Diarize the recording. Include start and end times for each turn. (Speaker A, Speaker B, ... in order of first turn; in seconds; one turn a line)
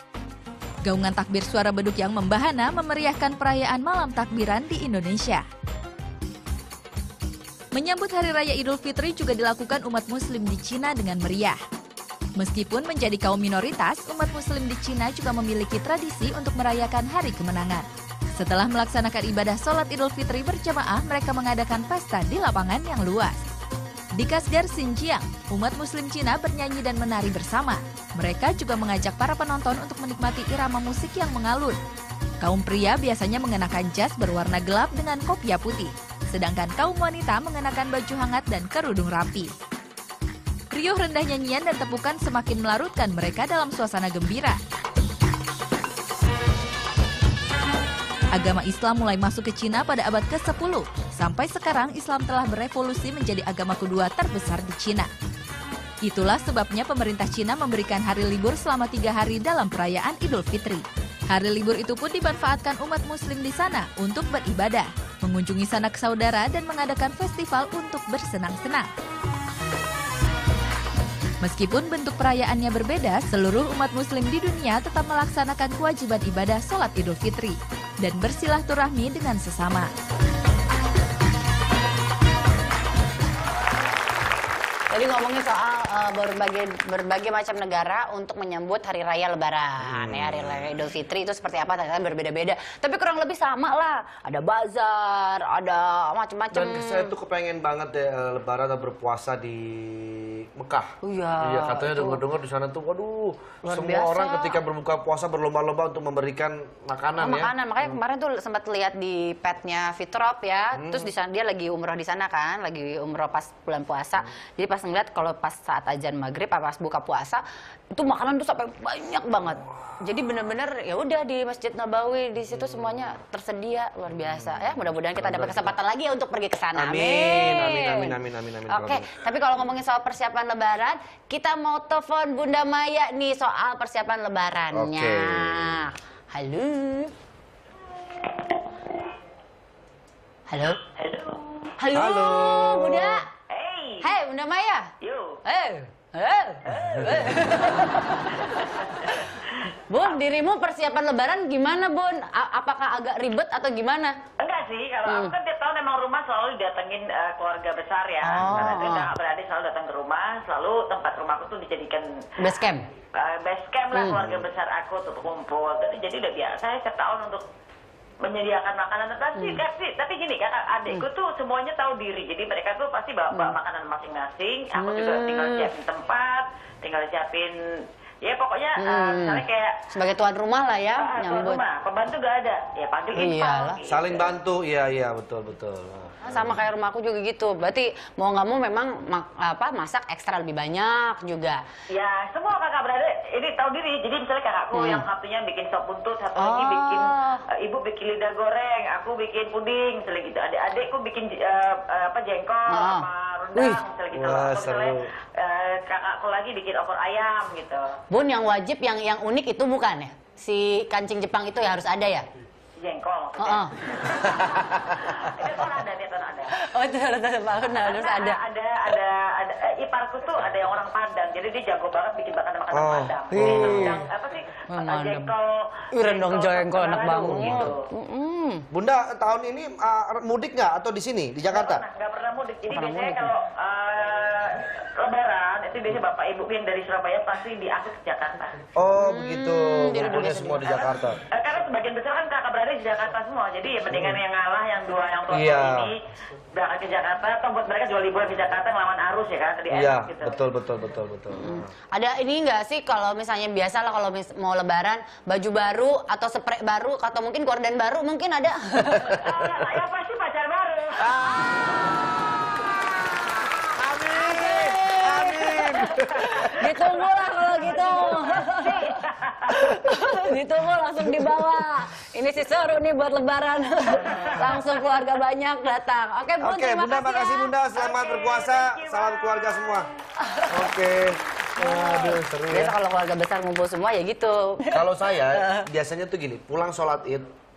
Speaker A: 0.8-5.4
Speaker A: 7.7-11.6
Speaker A: 12.4-17.9
Speaker A: 18.4-23.4
Speaker A: 24.1-31.8
Speaker A: 32.4-39.5
Speaker A: 40.7-44.6
Speaker A: 48.3-55.1
Speaker A: 56.0-68.9
Speaker A: 71.4-79.9
Speaker B: 84.9-97.1
Speaker C: 89.8-90.7
Speaker C: 96.5-108.0
Speaker B: 101.0-102.2
Speaker B: 103.6-104.6
Speaker B: 107.2-128.1
Speaker C: 110.7-111.1
Speaker C: 124.5-125.8
Speaker C: 126.7-129.1
Speaker B: 128.7-137.1
Speaker C: 134.7-135.8
Speaker D: 138.4-139.0
Speaker B: 140.5-140.8
Speaker D: 141.0-141.7
Speaker B: 141.8-143.3
Speaker C: 141.9-143.2
Speaker D: 143.5-144.1
Speaker B: 144.0-144.9
Speaker D: 145.0-145.4
Speaker B: 145.4-148.6
Speaker D: 146.8-147.1
Speaker D: 148.4-149.2
Speaker B: 149.9-154.2
Speaker D: 154.4-162.1
Speaker B: 155.1-155.4
Speaker B: 158.2-159.1
Speaker B: 162.4-162.8
Speaker D: 163.2-167.4
Speaker B: 163.9-164.3
Speaker D: 168.2-177.5
Speaker B: 169.3-169.6
Speaker B: 174.8-175.7
Speaker D: 178.2-179.8
Speaker B: 178.8-181.6
Speaker D: 181.0-184.3
Speaker B: 183.1-183.8
Speaker C: 183.9-186.5
Speaker B: 186.2-191.6
Speaker D: 191.9-207.8
Speaker B: 194.7-195.1
Speaker B: 196.4-197.4
Speaker B: 202.7-203.8
Speaker C: 204.1-205.1
Speaker B: 208.1-212.3
Speaker D: 212.8-216.5
Speaker B: 213.4-213.7
Speaker C: 214.4-215.0
Speaker B: 216.5-218.4
Speaker D: 217.8-227.8
Speaker C: 222.7-224.0
Speaker B: 223.3-224.1
Speaker B: 224.7-225.3
Speaker B: 225.9-228.7
Speaker C: 227.3-227.8
Speaker C: 228.7-231.8
Speaker D: 231.5-238.6
Speaker B: 232.7-233.3
Speaker C: 238.8-241.2
Speaker B: 239.0-240.9
Speaker D: 241.3-246.0
Speaker C: 245.3-245.9
Speaker D: 246.6-250.3
Speaker C: 249.7-251.7
Speaker B: 251.3-259.2
Speaker C: 258.9-259.4
Speaker D: 259.1-261.1
Speaker C: 261.0-261.8
Speaker B: 261.2-261.8
Speaker B: 263.1-263.6
Speaker C: 263.2-266.7
Speaker B: 264.1-265.9
Speaker D: 266.3-269.6
Speaker B: 266.5-277.5
Speaker C: 271.1-271.4
Speaker C: 274.2-274.4
Speaker C: 276.4-279.9
Speaker D: 277.8-279.9
Speaker B: 280.3-280.6
Speaker C: 280.5-282.8
Speaker B: 281.6-285.6
Speaker C: 284.7-287.3